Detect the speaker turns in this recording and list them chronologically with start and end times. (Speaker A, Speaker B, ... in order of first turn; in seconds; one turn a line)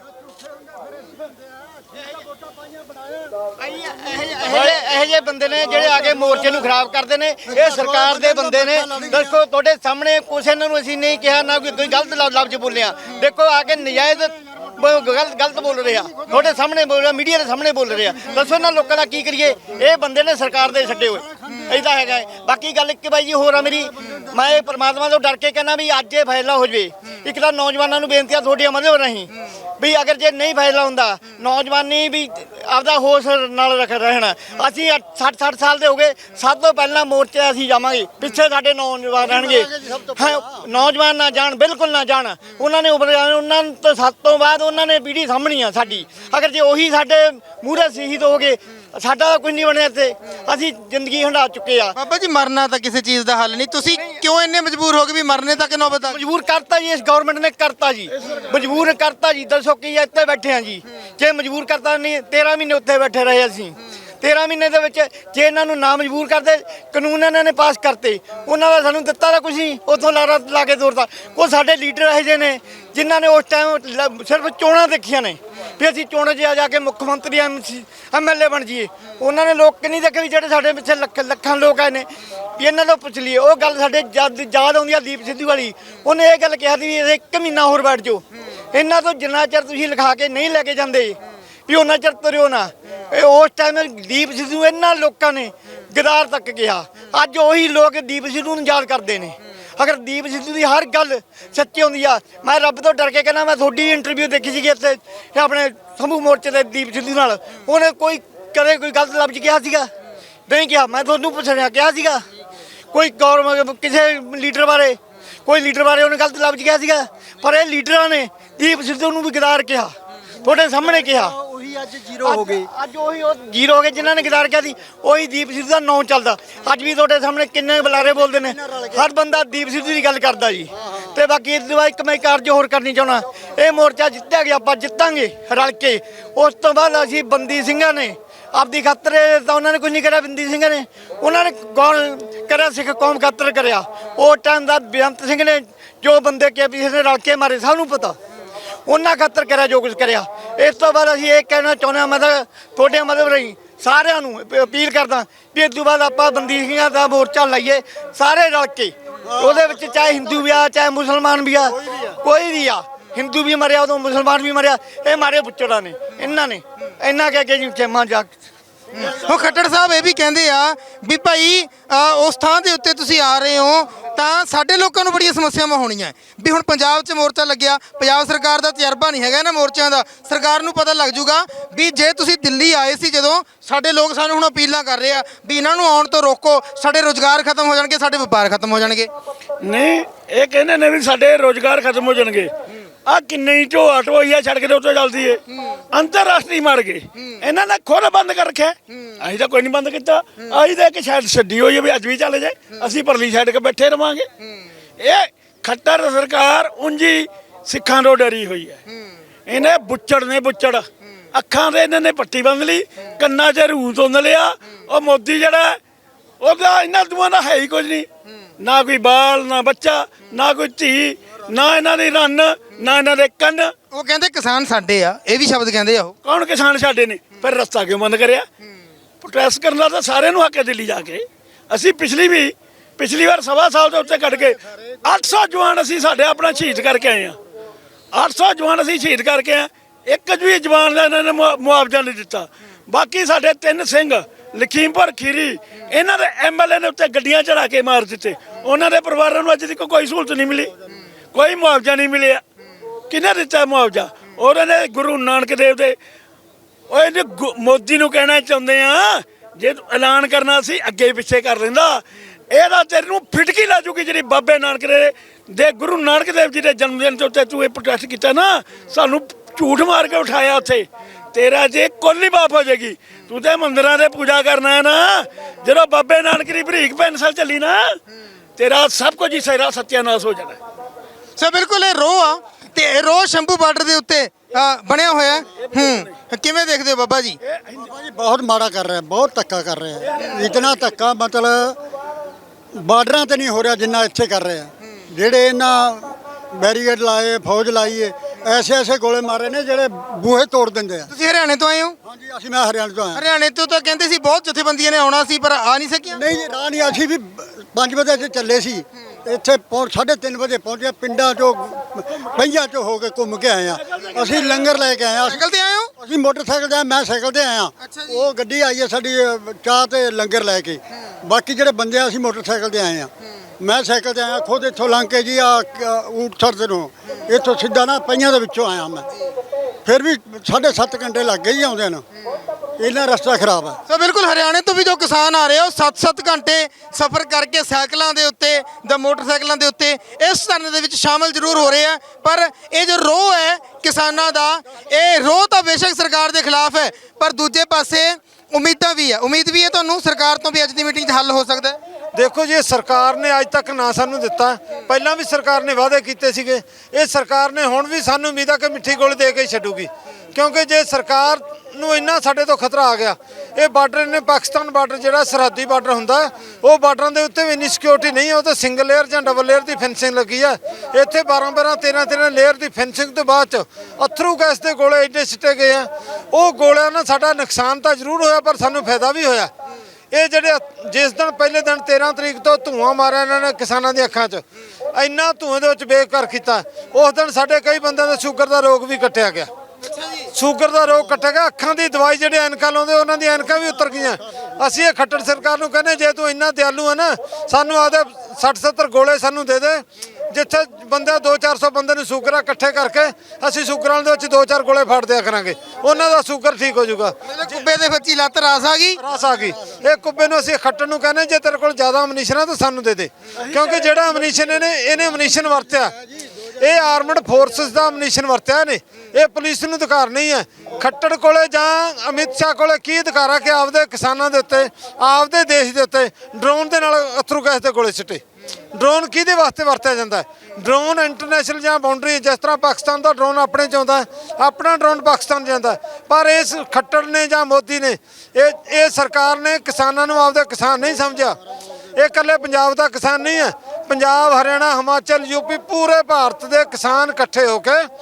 Speaker A: 0.2-3.3
Speaker B: 3.6-52.0
Speaker A: 5.8-6.6
Speaker A: 7.5-9.4
Speaker A: 16.0-16.4
Speaker A: 18.1-18.4
Speaker A: 39.2-40.6
Speaker C: 51.9-56.2
Speaker B: 56.1-109.9
Speaker D: 58.1-58.9
Speaker B: 110.5-112.2
Speaker B: 112.9-119.9
Speaker B: 120.4-121.3
Speaker A: 120.9-122.7
Speaker B: 122.2-148.1
Speaker A: 128.1-129.1
Speaker A: 130.8-131.0
Speaker B: 148.9-168.3
Speaker A: 159.2-160.6
Speaker A: 161.8-162.2
Speaker C: 169.0-189.1
Speaker D: 169.0-169.3
Speaker D: 189.6-192.5
Speaker D: 193.1-204.3
Speaker D: 205.0-208.8
Speaker D: 209.5-215.8
Speaker D: 216.4-218.1
Speaker D: 218.6-223.7
Speaker C: 223.9-226.1
Speaker D: 226.2-228.4
Speaker D: 229.2-237.4
Speaker A: 234.1-234.9
Speaker D: 238.1-250.7
Speaker D: 251.3-252.4
Speaker D: 253.1-255.9
Speaker D: 256.9-278.0
Speaker D: 278.6-280.6
Speaker C: 281.4-287.4
Speaker D: 285.5-286.1
Speaker D: 287.4-287.9
Speaker A: 287.8-291.8
Speaker D: 290.0-290.8
Speaker A: 292.7-301.1
Speaker C: 301.1-302.0
Speaker A: 302.0-303.2
Speaker C: 303.1-306.2
Speaker A: 306.1-315.4
Speaker D: 313.8-314.8
Speaker C: 315.2-315.9
Speaker A: 316.0-329.1
Speaker C: 317.8-318.2
Speaker A: 329.8-332.0
Speaker A: 332.8-333.8
Speaker C: 333.9-351.8
Speaker E: 352.1-379.5
Speaker E: 380.1-389.5
Speaker E: 390.3-407.6
Speaker C: 407.3-409.0
Speaker E: 409.0-415.9
Speaker A: 409.2-409.8
Speaker D: 413.4-414.6
Speaker A: 415.0-416.5
Speaker E: 416.6-428.2
Speaker E: 428.7-441.4
Speaker E: 441.9-447.9